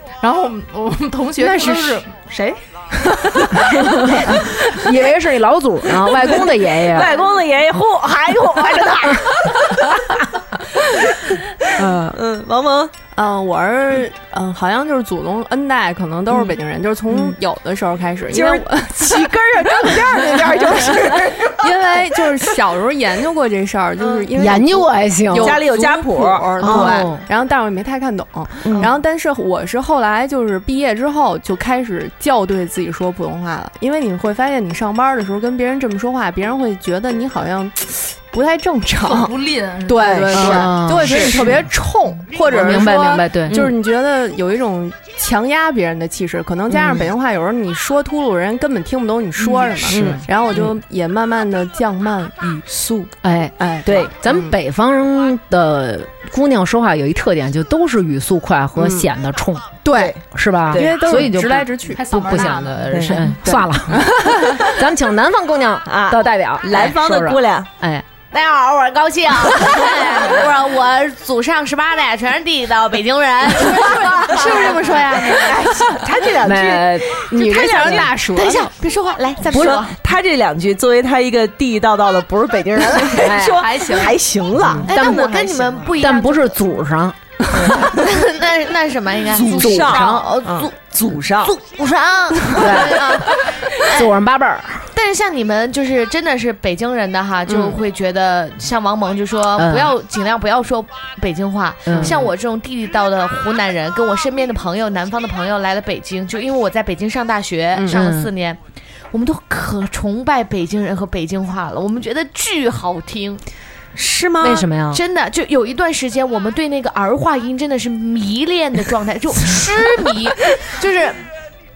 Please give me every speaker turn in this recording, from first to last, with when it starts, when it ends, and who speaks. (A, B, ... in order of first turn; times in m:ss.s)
0:00.2-0:04.4 A
0:01.5-0:02.0 B
0:03.6-0:07.1 C
0:06.1-0:12.9 B
0:11.8-0:12.2 C
0:13.1-0:39.3 D
0:18.3-0:21.9 B
0:24.0-0:24.3 B
0:24.3-0:25.6 C
0:25.3-0:27.0 B
0:26.6-0:27.2 C
0:28.6-0:28.9 B
0:39.0-0:40.7 A
0:39.8-0:54.5 D
0:40.0-0:41.4 B
0:40.3-0:41.7 C
0:42.4-0:43.6 C
0:43.5-0:43.7 B
0:46.7-0:47.0 C
0:49.4-0:50.7 C
0:49.8-0:50.3 B
0:53.2-1:08.0 C
0:53.8-0:54.1 B
0:58.8-0:59.1 D
0:59.8-1:00.1 D
0:59.9-1:00.2 B
1:00.7-1:02.6 D
1:00.7-1:01.2 B
1:01.9-1:03.4 A
1:02.9-1:03.2 B
1:03.1-1:03.6 D
1:04.0-1:04.4 A
1:05.9-1:07.7 B
1:08.3-1:15.6 E
1:13.6-1:15.7 A
1:13.8-1:18.1 B
1:16.4-1:18.1 C
1:17.3-1:18.7 D
1:18.3-1:20.0 E
1:19.5-1:25.9 B
1:23.1-1:23.7 C
1:23.6-1:24.2 A
1:24.6-1:25.2 C
1:24.9-1:26.6 E
1:26.0-1:27.7 C
1:27.5-1:27.9 B
1:27.8-1:30.7 E
1:29.3-1:31.5 B
1:29.6-1:30.3 C
1:31.4-1:34.1 E
1:32.5-1:33.3 C
1:33.8-1:34.9 C
1:34.9-1:48.6 E
1:37.5-1:37.8 C
1:39.6-1:39.9 C
1:41.8-1:42.2 C
1:47.7-1:48.3 C
1:49.1-1:53.4 E
1:53.9-1:54.7 B
1:54.4-1:55.0 C
1:54.9-2:01.2 E